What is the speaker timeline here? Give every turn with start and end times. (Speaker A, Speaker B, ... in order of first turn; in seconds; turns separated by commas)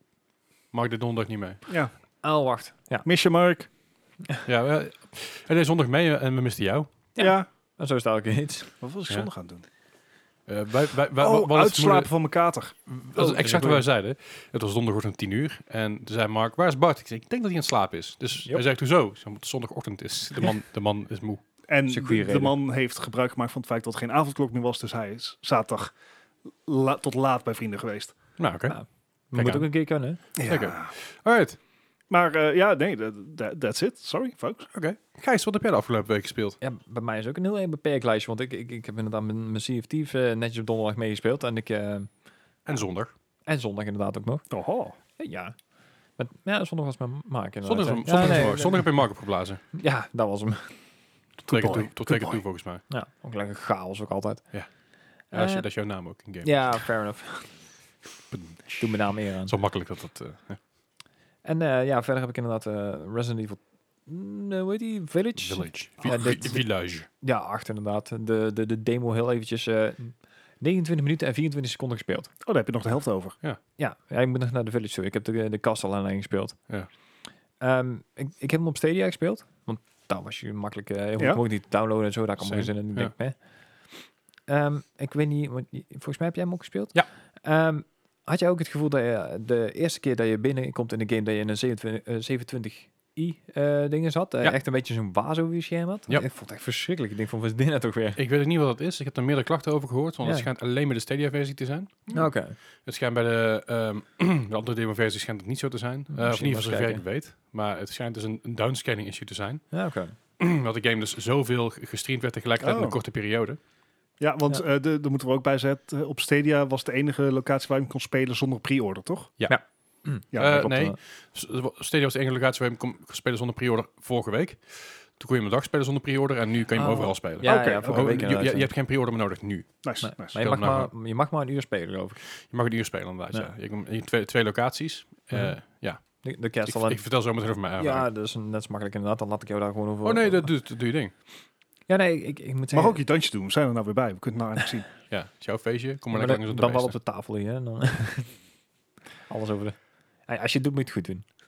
Speaker A: 0.7-1.6, Speaker B: 1.7-1.9, Speaker C: 2.2-3.1, Speaker B: 3.0-3.7, Speaker A: 4.5-6.9, Speaker C: 7.2-8.8, Speaker B: 7.2-7.5, Speaker B: 8.8-9.7, Speaker A: 10.5-12.1, Speaker B: 11.2-12.8, Speaker A: 12.9-21.4, Speaker C: 13.2-13.8, Speaker B: 21.7-25.9, Speaker C: 21.9-22.5, Speaker B: 26.6-28.2, Speaker A: 28.4-28.8, Speaker C: 28.7-30.2, Speaker A: 29.3-29.7, Speaker B: 30.4-30.9, Speaker A: 30.4-31.6, Speaker B: 32.1-34.7, Speaker A: 34.7-36.6, Speaker C: 36.6-42.1, Speaker A: 42.7-43.1, Speaker C: 43.5-44.5, Speaker B: 44.5-45.0, Speaker C: 45.2-45.6, Speaker C: 46.2-49.0, Speaker A: 47.6-49.6, Speaker C: 49.7-50.7, Speaker A: 51.5-52.8, Speaker B: 51.5-52.4, Speaker C: 52.9-54.5, Speaker C: 55.3-55.7, Speaker A: 55.3-56.8, Speaker C: 56.4-57.5, Speaker A: 58.3-58.9, Speaker C: 58.8-59.5, Speaker A: 59.4-60.6, Speaker C: 61.4-72.3, Speaker A: 65.4-67.1, Speaker B: 72.5-73.4, Speaker C: 73.8-76.6, Speaker C: 77.6-83.3, Speaker A: 82.4-83.1, Speaker C: 84.5-98.2, Speaker A: 98.2-102.3, Speaker C: 102.1-102.6, Speaker A: 102.8-109.7, Speaker C: 106.1-107.0, Speaker C: 109.7-110.2, Speaker A: 110.4-113.6, Speaker B: 112.6-113.0, Speaker B: 114.2-119.3, Speaker C: 119.5-121.0, Speaker B: 120.3-120.7, Speaker A: 120.3-130.9, Speaker C: 126.8-128.7, Speaker B: 127.4-128.2, Speaker B: 129.8-130.3, Speaker C: 130.0-132.2, Speaker A: 132.4-138.1, Speaker C: 135.3-137.1, Speaker C: 137.8-140.5, Speaker A: 140.0-141.1, Speaker C: 141.9-143.0, Speaker B: 142.7-144.9, Speaker A: 145.1-146.9, Speaker C: 146.1-148.3, Speaker C: 149.3-151.2